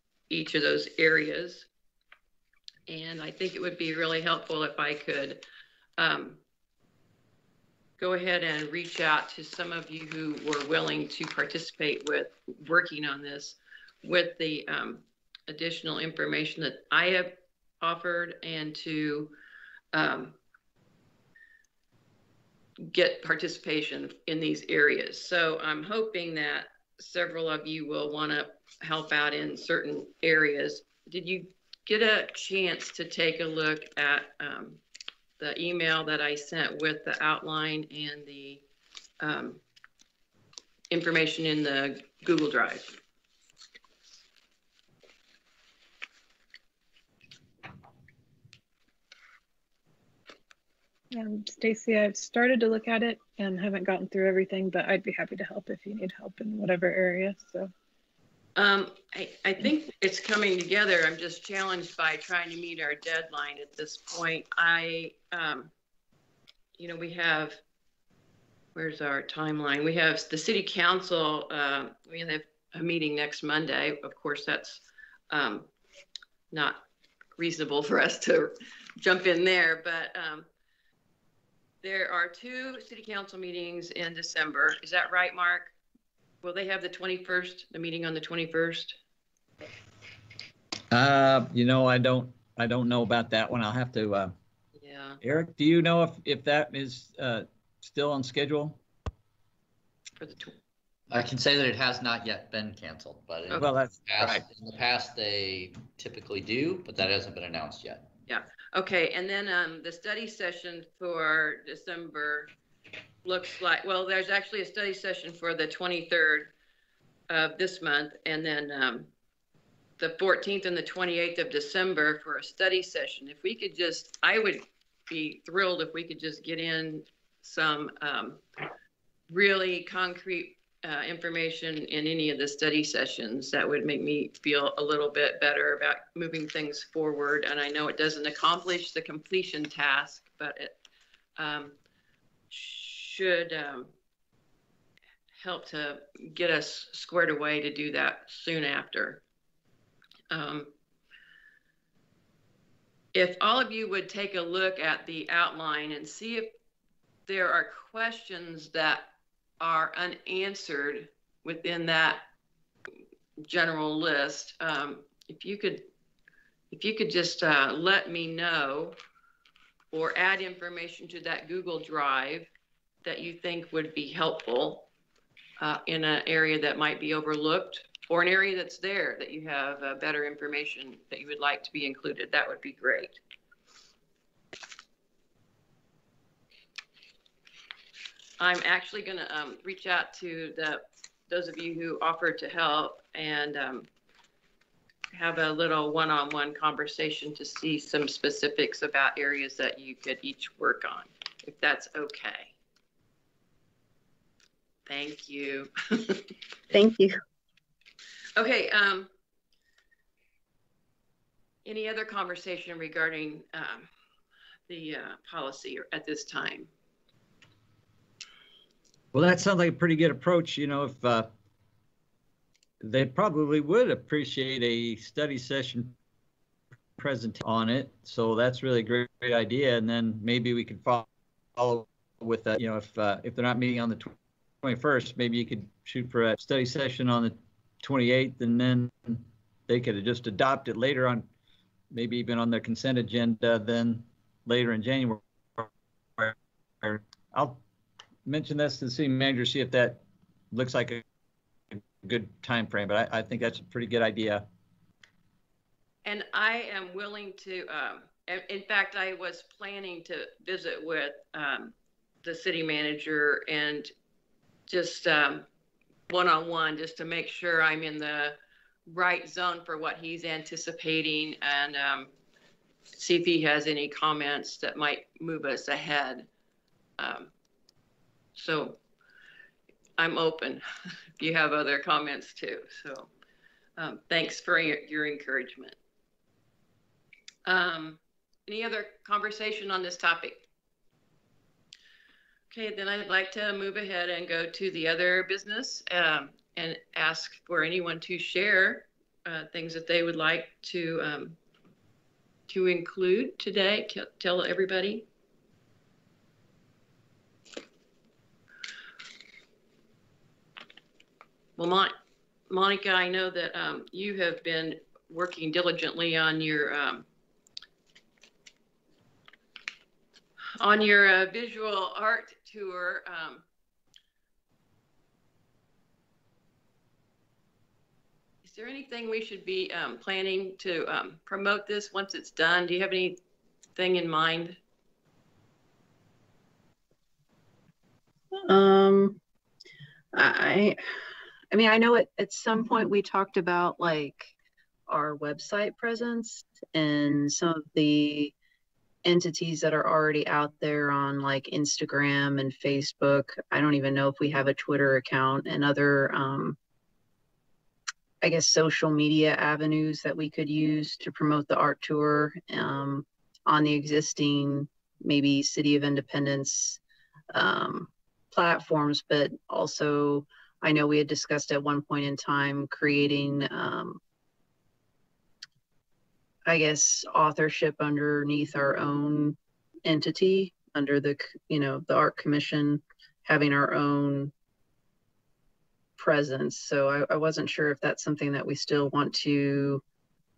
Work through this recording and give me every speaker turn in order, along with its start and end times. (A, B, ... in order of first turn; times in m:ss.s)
0:00.3-0:01.7 A
0:02.9-0:05.4 A
0:06.0-0:06.4 A
0:08.0-0:19.3 A
0:19.9-0:20.4 A
0:22.8-0:34.8 A
0:35.4-0:38.6 A
0:39.2-0:39.6 A
0:40.9-0:43.0 A
0:51.1-0:57.7 B
0:58.6-1:05.7 A
1:06.8-1:07.6 A
1:08.7-1:15.7 A
1:16.5-1:16.8 A
1:17.4-1:20.5 A
1:21.8-1:25.7 A
1:26.4-1:29.0 A
1:30.9-1:34.3 C
1:34.8-1:35.2 A
1:35.2-1:38.8 C
1:40.2-1:40.6 A
1:41.1-1:48.1 D
1:43.6-1:44.4 C
1:48.3-1:52.5 A
1:53.2-1:56.5 A
1:57.3-1:59.1 A
2:00.0-2:08.4 A
2:09.3-2:20.8 A
2:21.4-2:21.8 A
2:22.5-2:23.9 A
2:25.3-2:29.2 A
2:30.3-2:30.7 A
2:33.1-2:36.5 A
2:37.3-2:42.2 A
2:43.4-2:45.9 A
2:46.7-2:49.0 A
2:49.9-2:52.5 A
2:53.0-2:54.9 A
2:55.6-3:03.2 A
3:08.4-3:13.9 A
3:15.1-3:22.5 A
3:24.9-3:26.2 A
3:26.7-3:27.2 E
3:28.4-3:29.1 A
3:31.6-3:33.9 A
3:34.7-3:36.7 A
3:39.1-3:41.3 C
3:42.8-3:45.9 C
3:47.0-3:51.0 C
3:51.6-4:01.2 C
4:01.9-4:07.6 C
4:08.2-4:11.0 C
4:11.7-4:14.4 C
4:16.0-4:23.9 A
4:24.7-4:25.4 A
4:26.1-4:28.4 A
4:28.9-4:32.1 A
4:32.9-4:36.3 A
4:37.0-4:37.3 A
4:38.3-4:38.8 A
4:40.0-4:40.6 A
4:41.2-4:43.1 A
4:43.8-4:45.8 A
4:47.4-4:50.4 A
4:52.5-5:01.4 A
5:02.5-5:05.0 A
5:11.6-5:11.9 A
5:12.5-5:17.0 A
5:20.6-5:23.4 A
5:28.4-5:33.2 A
5:33.8-5:34.6 A
5:38.4-5:39.2 E
5:40.1-5:40.8 E
5:41.5-5:44.3 E
5:44.9-5:48.3 E
5:49.0-5:56.6 E
5:58.2-6:06.8 E
6:07.3-6:14.0 E
6:16.4-6:24.3 E
6:26.0-6:29.8 E